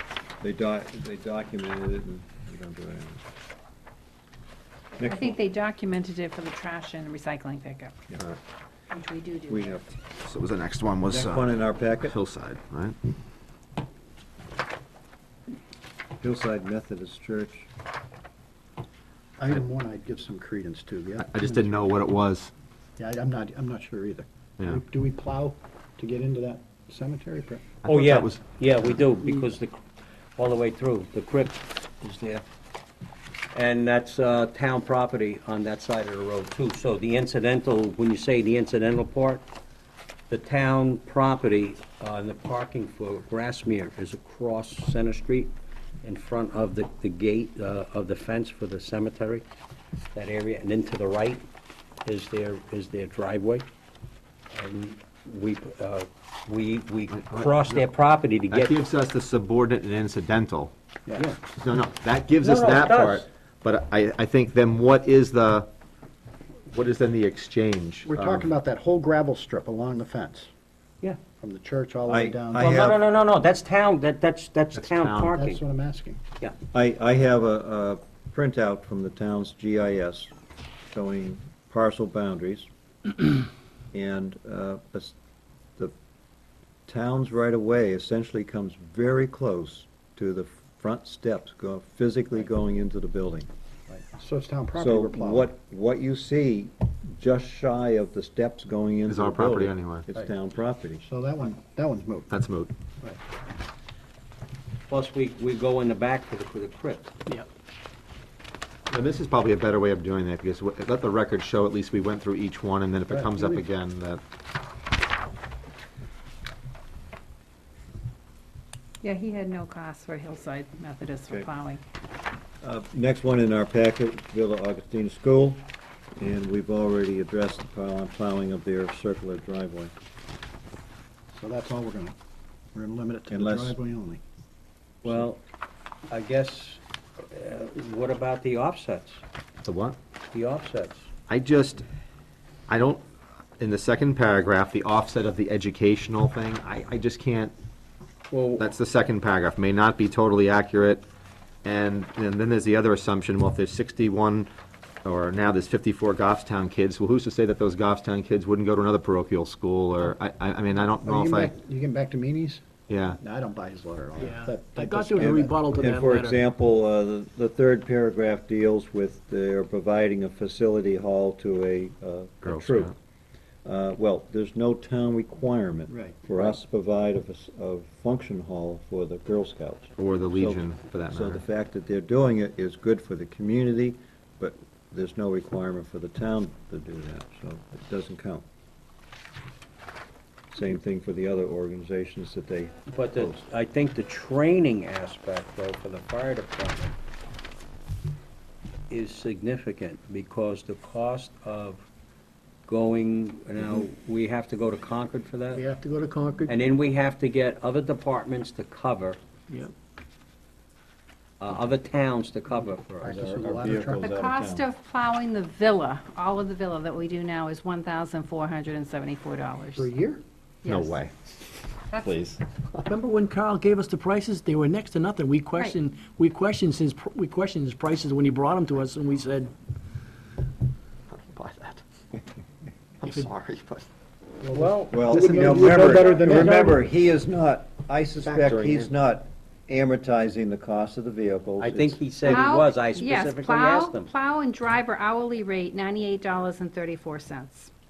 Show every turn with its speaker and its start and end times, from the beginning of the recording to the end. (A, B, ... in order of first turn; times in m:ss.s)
0:00.4-0:03.2 A
0:05.0-0:05.4 A
0:05.0-0:07.9 B
0:08.9-0:09.8 B
0:09.5-0:09.9 A
0:10.2-0:13.0 C
0:11.1-0:12.2 A
0:16.2-0:17.7 A
0:19.4-0:21.8 D
0:21.2-0:22.5 C
0:23.0-0:27.6 D
0:27.8-0:29.0 C
0:27.8-0:29.8 E
0:30.4-0:32.4 E
0:33.5-0:39.4 E
0:40.3-0:49.4 E
0:50.1-0:51.4 E
0:52.0-0:53.7 E
0:54.5-0:58.8 E
0:57.2-0:57.8 C
0:58.5-1:00.7 C
1:01.5-1:05.7 C
1:02.4-1:03.2 E
1:06.7-1:08.5 C
1:08.0-1:10.5 D
1:11.4-1:12.9 D
1:12.1-1:13.0 A
1:12.5-1:15.6 E
1:14.7-1:15.3 C
1:15.3-1:16.2 D
1:16.7-1:20.3 A
1:20.9-1:22.7 A
1:23.9-1:25.1 A
1:26.9-1:33.5 A
1:33.9-1:35.5 D
1:34.7-1:41.0 A
1:39.1-1:40.1 C
1:41.0-1:42.4 D
1:42.3-1:42.7 C
1:44.9-1:47.1 E
1:48.9-1:54.2 C
1:53.1-1:53.6 D
1:59.0-2:01.8 B
2:02.6-2:05.6 A
2:06.2-2:09.9 A
2:11.3-2:12.2 D
2:12.7-2:14.2 D
2:13.3-2:13.8 A
2:15.0-2:15.4 E
2:16.1-2:19.2 E
2:19.6-2:20.0 C
2:20.3-2:21.1 E
2:21.3-2:21.8 C
2:22.7-2:23.0 C
2:23.6-2:27.5 C
2:28.3-2:28.7 E
2:28.6-2:31.0 C
2:31.6-2:34.5 C
2:35.0-2:41.5 C
2:41.0-2:45.5 D
2:42.9-2:43.2 C
2:44.2-2:46.4 F
2:45.2-2:52.9 A
2:52.4-2:52.9 C
2:53.6-3:08.4 A
2:55.9-2:56.2 D
3:00.0-3:01.4 C
3:10.5-3:13.4 A
3:12.9-3:17.0 E
3:18.9-3:21.8 E
3:22.6-3:25.6 E
3:25.5-3:26.5 F
3:26.5-3:29.2 E
3:31.4-3:33.7 E
3:33.0-3:34.0 D
3:33.2-3:34.6 A
3:34.0-3:39.9 B
3:39.7-3:40.2 D
3:40.6-3:41.0 B
3:40.6-3:42.9 C
3:42.9-3:49.5 F
3:51.1-3:51.8 C
3:53.0-3:53.9 C
3:54.4-3:56.8 D
3:54.5-3:56.5 E
3:54.9-4:02.4 A
3:55.1-3:56.6 F
3:58.2-3:58.9 C
4:01.6-4:04.1 E
4:02.2-4:07.7 B